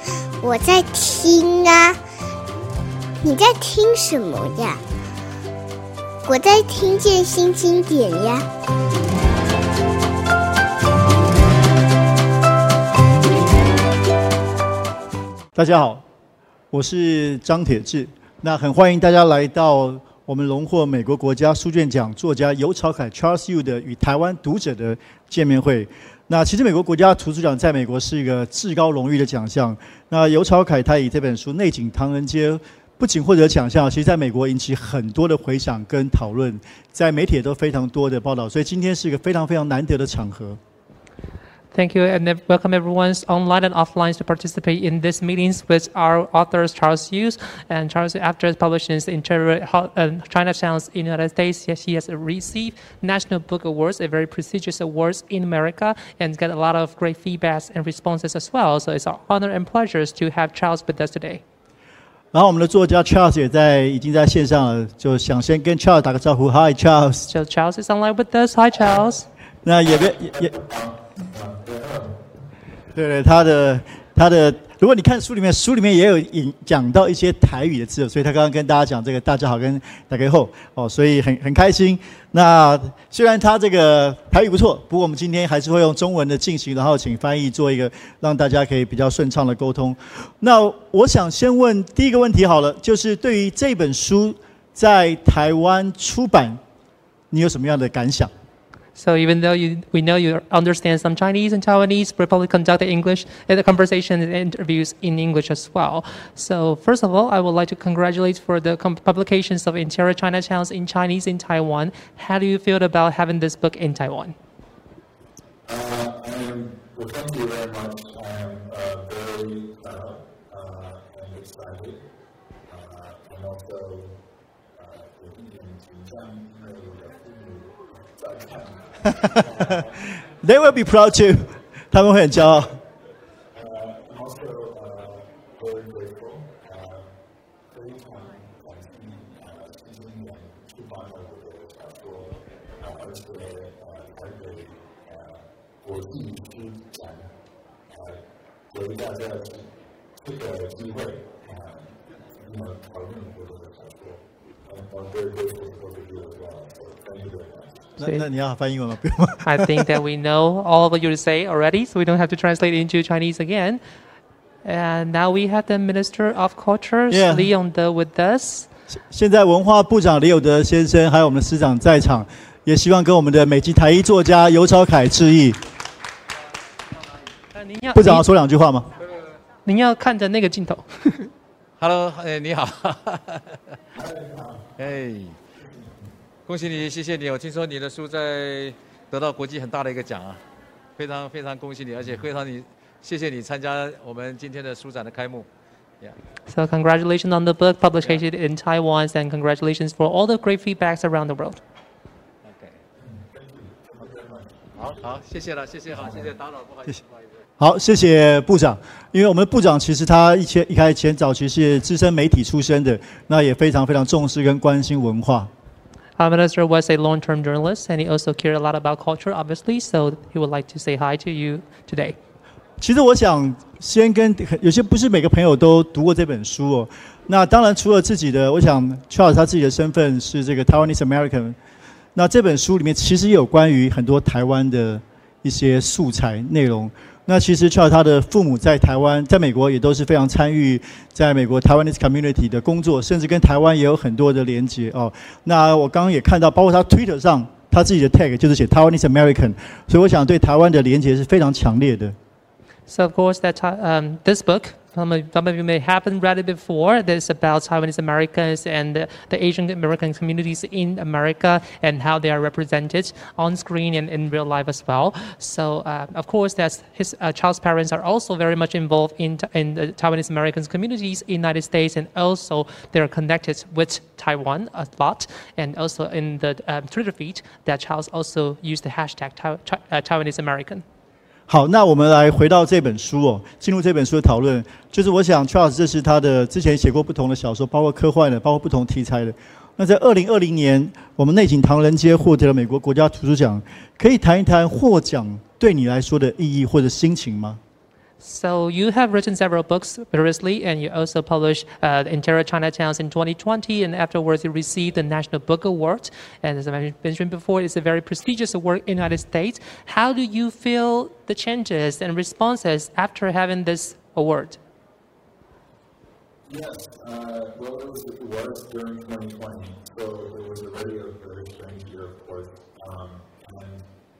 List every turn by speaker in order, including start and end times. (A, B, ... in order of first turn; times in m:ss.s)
0:00.4-0:02.0 A
0:03.2-0:04.8 A
0:06.2-0:08.4 A
0:15.5-0:16.0 B
0:16.7-0:40.6 B
0:41.7-1:01.4 C
1:02.3-1:07.3 B
1:07.3-1:09.2 C
1:09.6-1:10.6 B
1:09.8-1:12.2 D
1:12.9-1:36.6 B
1:37.3-1:38.3 B
1:39.0-1:54.3 C
1:55.7-2:02.0 D
2:02.7-2:04.2 D
2:04.7-2:10.2 D
2:09.3-2:09.7 B
2:10.4-2:12.8 B
2:13.5-2:17.1 D
2:17.7-2:27.3 D
2:27.9-2:29.7 D
2:30.2-2:38.0 D
2:38.0-2:39.8 B
2:39.4-2:43.8 C
2:44.6-2:48.7 C
2:47.1-2:47.5 B
2:48.9-2:55.6 B
2:57.5-2:58.2 C
2:57.9-2:58.9 B
2:59.6-3:01.3 C
3:01.8-3:03.6 E
3:03.9-3:04.8 D
3:04.8-3:05.4 E
3:05.5-3:06.1 D
3:06.5-3:10.4 E
3:11.0-3:15.5 E
3:16.5-3:21.6 C
3:22.4-3:22.8 E
3:23.0-3:25.2 D
3:24.8-3:27.3 E
3:25.9-3:26.3 D
3:27.6-3:35.5 B
3:36.2-3:42.2 C
3:42.8-3:51.6 B
3:52.1-4:12.2 B
4:12.9-4:40.8 C
4:41.5-4:57.6 B
4:58.2-5:14.6 C
5:16.5-5:23.8 D